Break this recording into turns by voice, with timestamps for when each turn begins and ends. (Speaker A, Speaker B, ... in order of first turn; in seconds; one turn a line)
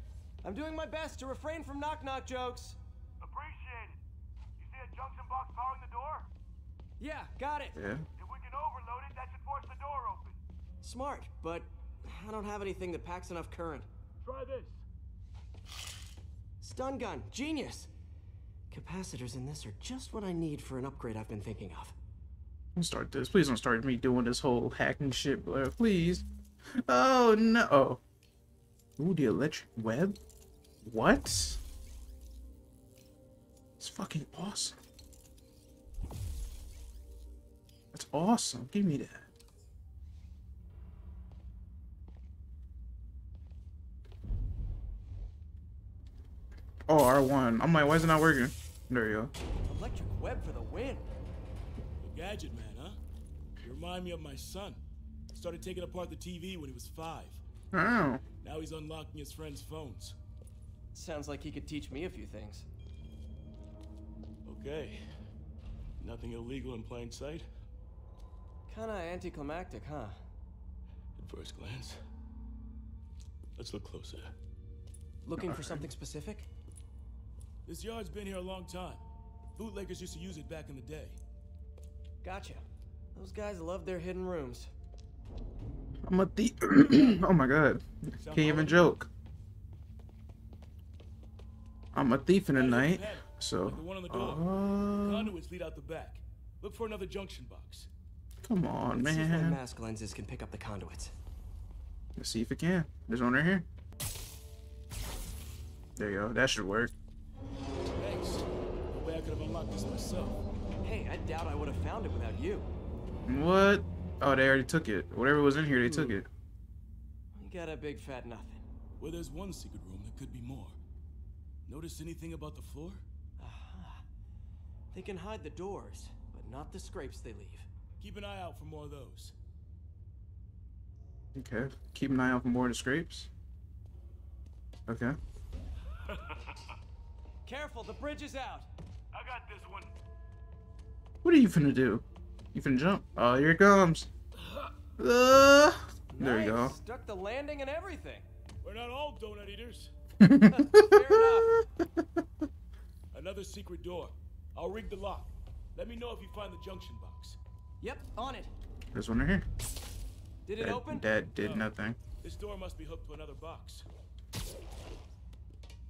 Speaker A: 0.4-2.8
Speaker B: 3.2-4.0
Speaker B: 4.6-6.3
Speaker A: 7.0-7.8
Speaker C: 7.8-8.1
Speaker B: 8.2-10.4
Speaker A: 10.8-13.9
Speaker B: 14.2-14.8
Speaker A: 16.6-17.9
Speaker A: 18.7-21.9
Speaker C: 22.8-26.2
Speaker C: 26.9-28.0
Speaker C: 29.0-30.2
Speaker C: 30.8-31.6
Speaker C: 33.8-34.8
Speaker C: 37.9-39.3
Speaker C: 46.9-49.3
Speaker A: 49.6-51.1
Speaker B: 52.0-53.0
Speaker B: 53.6-54.8
Speaker B: 55.3-57.4
Speaker C: 57.7-58.2
Speaker B: 58.4-60.2
Speaker A: 60.9-62.7
Speaker B: 64.5-65.0
Speaker B: 66.0-67.5
Speaker A: 68.7-70.2
Speaker B: 71.2-72.0
Speaker B: 73.6-74.3
Speaker A: 75.2-76.5
Speaker C: 75.4-75.8
Speaker B: 77.7-79.0
Speaker B: 79.6-81.2
Speaker A: 82.2-82.6
Speaker A: 83.2-84.7
Speaker C: 86.1-89.1
Speaker B: 88.2-88.9
Speaker C: 91.9-95.3
Speaker B: 92.5-97.9
Speaker C: 98.5-99.6
Speaker A: 98.9-101.1
Speaker C: 102.2-103.7
Speaker C: 106.0-106.9
Speaker B: 108.0-110.4
Speaker A: 110.8-112.7
Speaker C: 113.3-116.3
Speaker A: 115.8-116.2
Speaker A: 117.3-118.6
Speaker B: 119.0-120.8
Speaker B: 121.7-123.0
Speaker A: 123.4-124.0
Speaker A: 124.9-127.7
Speaker B: 128.0-129.3
Speaker C: 131.3-133.3
Speaker C: 134.9-135.2
Speaker B: 136.1-136.6
Speaker A: 137.5-138.7
Speaker B: 139.1-139.9
Speaker C: 141.2-144.1
Speaker C: 145.0-146.8
Speaker A: 146.1-148.3
Speaker B: 148.6-149.9
Speaker C: 150.2-151.6
Speaker A: 150.5-151.6
Speaker B: 153.1-157.4
Speaker A: 157.8-158.5
Speaker C: 158.9-159.4
Speaker A: 160.5-161.1
Speaker C: 160.6-162.0
Speaker B: 161.4-163.8